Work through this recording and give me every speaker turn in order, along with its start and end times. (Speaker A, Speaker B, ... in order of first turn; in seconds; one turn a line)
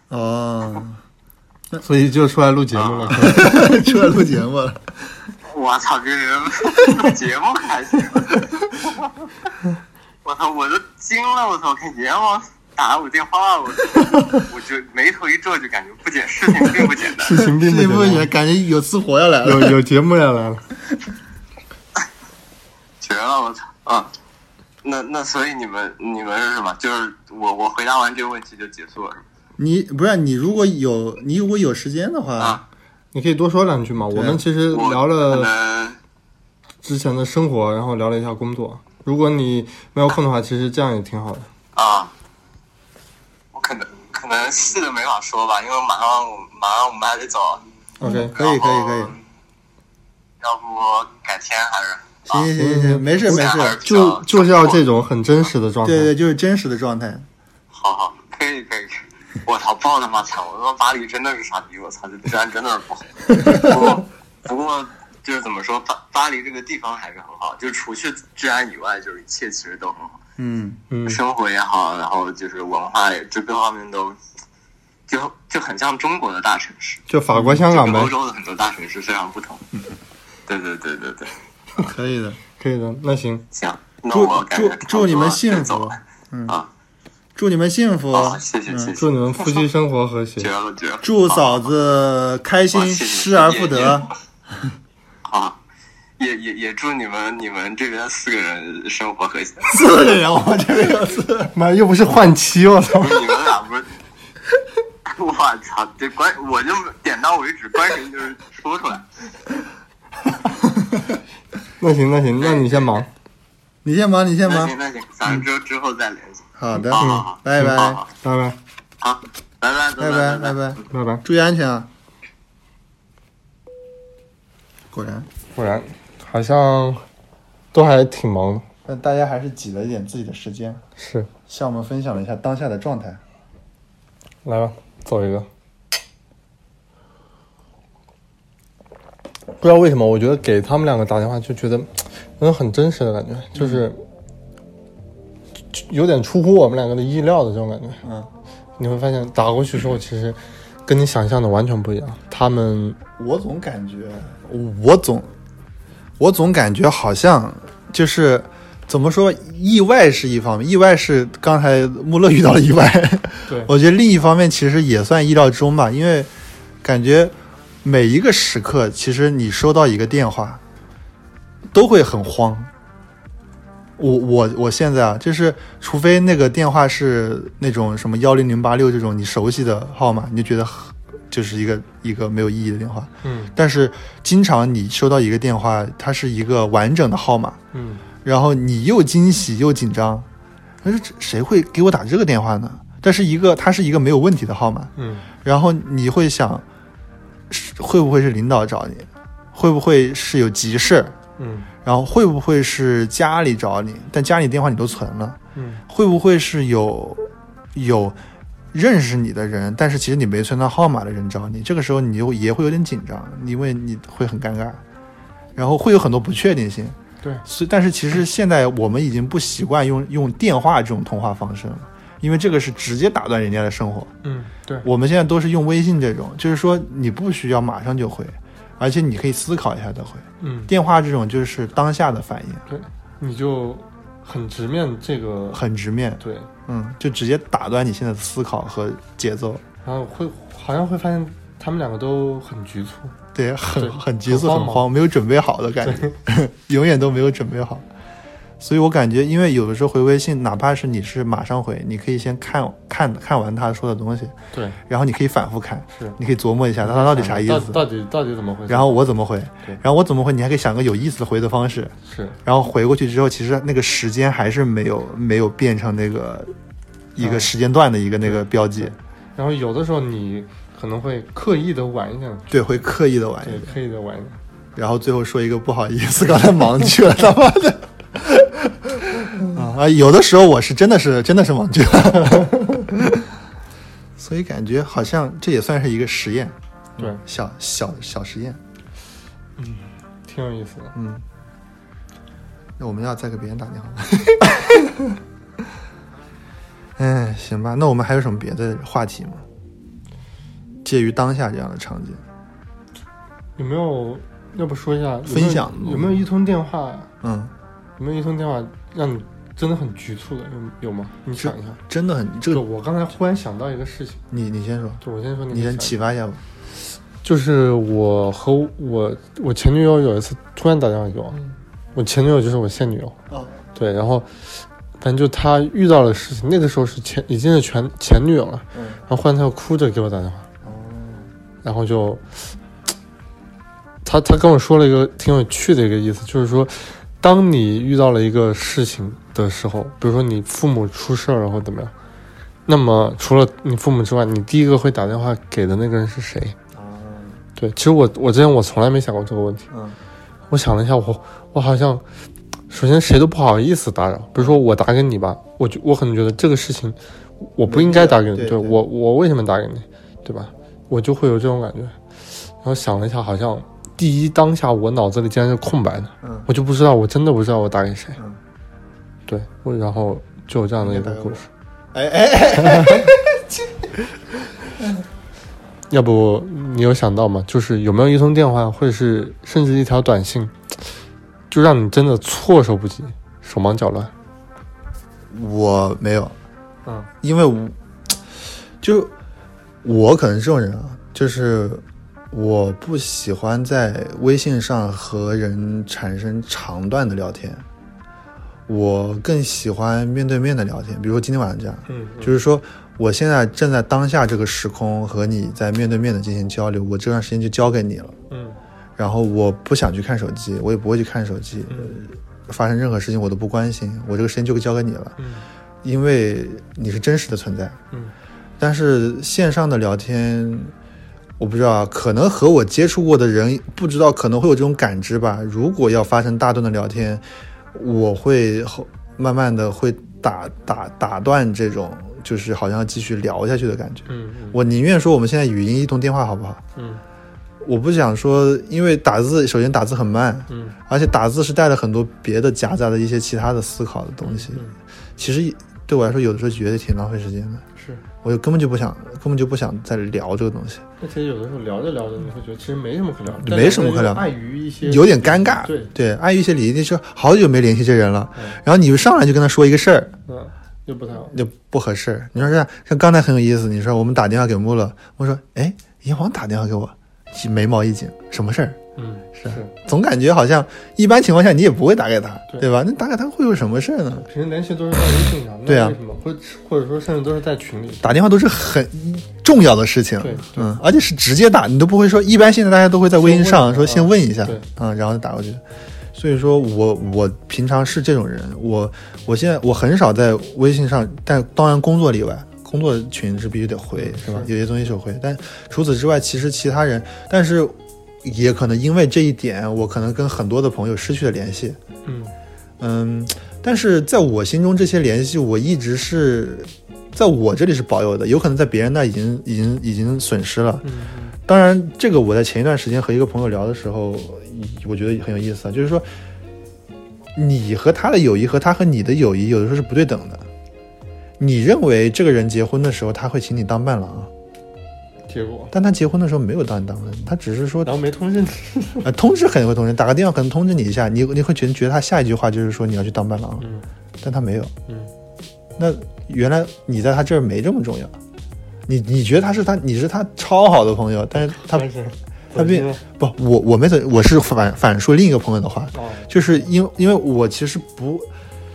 Speaker A: 0.1-1.0
Speaker B: 1.8-3.6
Speaker A: 3.1-4.8
Speaker C: 5.6-6.5
Speaker C: 7.0-8.1
Speaker C: 10.2-13.7
Speaker C: 14.6-17.2
Speaker B: 17.2-18.3
Speaker A: 17.3-19.8
Speaker B: 19.4-20.6
Speaker C: 23.0-24.1
Speaker C: 24.9-29.1
Speaker A: 29.6-32.6
Speaker B: 33.1-35.5
Speaker A: 34.1-34.4
Speaker C: 34.7-36.0
Speaker B: 36.8-41.5
Speaker C: 41.8-42.1
Speaker C: 43.5-47.6
Speaker B: 48.0-48.3
Speaker A: 48.0-49.1
Speaker C: 48.4-49.0
Speaker C: 50.4-52.4
Speaker A: 52.3-53.8
Speaker B: 52.6-56.1
Speaker C: 53.3-54.8
Speaker A: 55.8-57.2
Speaker C: 57.7-58.9
Speaker C: 59.5-63.0
Speaker C: 63.6-70.1
Speaker A: 70.4-70.8
Speaker B: 70.9-71.2
Speaker C: 71.1-74.1
Speaker C: 75.1-77.0
Speaker B: 77.1-78.1
Speaker A: 77.3-77.6
Speaker C: 77.7-79.6
Speaker C: 80.5-81.2
Speaker A: 81.8-82.4
Speaker B: 82.6-83.5
Speaker C: 83.6-85.9
Speaker A: 84.1-86.6
Speaker A: 87.3-88.9
Speaker C: 88.1-89.0
Speaker B: 88.9-90.5
Speaker C: 90.4-91.4
Speaker A: 91.0-94.1
Speaker C: 92.8-94.0
Speaker C: 95.3-95.5
Speaker C: 96.2-99.5
Speaker A: 99.7-101.5
Speaker B: 101.5-103.2
Speaker C: 103.0-103.8
Speaker C: 105.2-109.0
Speaker B: 111.8-113.1
Speaker A: 113.8-114.7
Speaker C: 114.5-116.4
Speaker A: 116.6-118.0
Speaker C: 116.9-118.0
Speaker B: 116.9-118.6
Speaker C: 119.0-120.5
Speaker A: 120.0-121.9
Speaker B: 120.9-121.2
Speaker A: 124.9-125.3
Speaker B: 125.5-127.0
Speaker B: 127.7-128.6
Speaker A: 128.8-130.8
Speaker B: 131.0-131.3
Speaker A: 131.5-133.2
Speaker B: 134.4-135.5
Speaker B: 139.6-144.0
Speaker A: 143.5-143.8
Speaker B: 145.7-148.0
Speaker A: 148.0-148.3
Speaker B: 148.8-153.0
Speaker A: 153.2-155.3
Speaker A: 156.2-166.3
Speaker A: 166.8-170.6
Speaker A: 171.7-172.7
Speaker A: 174.0-187.6
Speaker B: 183.2-183.5
Speaker B: 187.7-188.0
Speaker A: 188.2-190.3
Speaker A: 190.8-194.9
Speaker B: 194.9-195.3
Speaker A: 195.4-196.6
Speaker A: 197.5-201.1
Speaker B: 201.4-201.7
Speaker A: 201.8-205.4
Speaker B: 205.5-205.8
Speaker A: 205.9-208.2
Speaker A: 208.7-214.8
Speaker A: 215.6-224.1
Speaker B: 224.2-224.9
Speaker A: 224.8-232.6
Speaker B: 230.4-230.7
Speaker B: 232.7-235.6
Speaker A: 235.5-239.6
Speaker B: 236.2-236.5
Speaker B: 239.8-243.1
Speaker A: 243.3-247.8
Speaker B: 243.8-244.9
Speaker B: 245.8-246.1
Speaker A: 248.6-254.3
Speaker B: 254.5-254.8
Speaker A: 254.9-257.8
Speaker B: 256.8-259.0
Speaker A: 258.7-266.5
Speaker B: 262.1-262.4
Speaker A: 267.1-268.9
Speaker B: 267.2-267.5
Speaker B: 268.2-272.5
Speaker A: 272.5-273.8
Speaker B: 273.4-274.4
Speaker A: 274.8-283.2
Speaker B: 282.3-282.9
Speaker A: 284.2-288.6
Speaker B: 289.6-290.9
Speaker A: 290.9-291.2
Speaker A: 292.8-294.9
Speaker A: 297.0-299.4
Speaker A: 300.8-302.2
Speaker B: 303.6-307.1
Speaker A: 305.2-306.2
Speaker A: 307.2-307.5
Speaker B: 308.0-311.8
Speaker A: 311.4-312.6
Speaker B: 312.5-314.2
Speaker A: 314.3-316.4
Speaker B: 315.0-316.0
Speaker B: 317.2-321.4
Speaker B: 321.9-323.1
Speaker A: 323.3-323.6
Speaker B: 323.7-324.3
Speaker B: 325.0-330.4
Speaker A: 328.7-329.0
Speaker A: 330.6-331.3
Speaker B: 331.6-332.2
Speaker B: 334.0-341.9
Speaker B: 342.7-346.6
Speaker A: 346.7-347.4
Speaker B: 347.6-349.7
Speaker A: 349.7-349.9
Speaker B: 350.5-352.0
Speaker B: 352.7-361.9
Speaker A: 357.6-358.8
Speaker B: 362.6-368.2
Speaker A: 366.2-366.5
Speaker B: 369.3-371.5
Speaker A: 370.8-373.9
Speaker B: 372.6-373.1
Speaker A: 374.8-375.0
Speaker B: 375.9-380.5
Speaker B: 381.5-384.1
Speaker A: 385.3-386.3
Speaker A: 387.2-387.8
Speaker A: 388.8-389.1
Speaker A: 389.8-397.6
Speaker A: 398.7-408.1
Speaker B: 401.9-402.4
Speaker B: 408.3-408.6
Speaker A: 409.0-415.2
Speaker B: 411.7-412.0
Speaker B: 415.2-415.4
Speaker A: 415.8-417.8
Speaker A: 418.6-420.7
Speaker A: 421.4-436.6
Speaker B: 434.1-434.6
Speaker B: 436.8-437.0
Speaker A: 437.6-444.6
Speaker B: 440.5-440.8
Speaker B: 444.2-444.7
Speaker A: 445.2-447.6
Speaker B: 447.8-448.0
Speaker A: 448.2-450.8
Speaker B: 451.0-455.9
Speaker A: 453.3-454.3
Speaker A: 454.8-460.1
Speaker B: 460.3-461.3
Speaker A: 461.3-468.8
Speaker B: 469.0-469.7
Speaker A: 469.4-474.3
Speaker B: 474.2-478.2
Speaker A: 475.6-476.0
Speaker A: 478.0-485.6
Speaker B: 480.2-480.8
Speaker B: 483.1-484.6
Speaker A: 486.1-501.8
Speaker B: 493.9-494.5
Speaker B: 502.0-502.3
Speaker A: 502.8-510.9
Speaker B: 510.8-511.3
Speaker A: 511.5-516.0
Speaker A: 517.3-520.5
Speaker A: 521.4-524.3
Speaker B: 525.3-525.7
Speaker A: 525.7-527.9
Speaker B: 527.8-529.1
Speaker A: 529.0-533.6
Speaker B: 533.6-533.9
Speaker A: 534.2-534.7
Speaker A: 535.8-538.1
Speaker A: 538.9-541.9
Speaker B: 541.4-543.0
Speaker A: 542.5-548.3
Speaker B: 545.9-546.6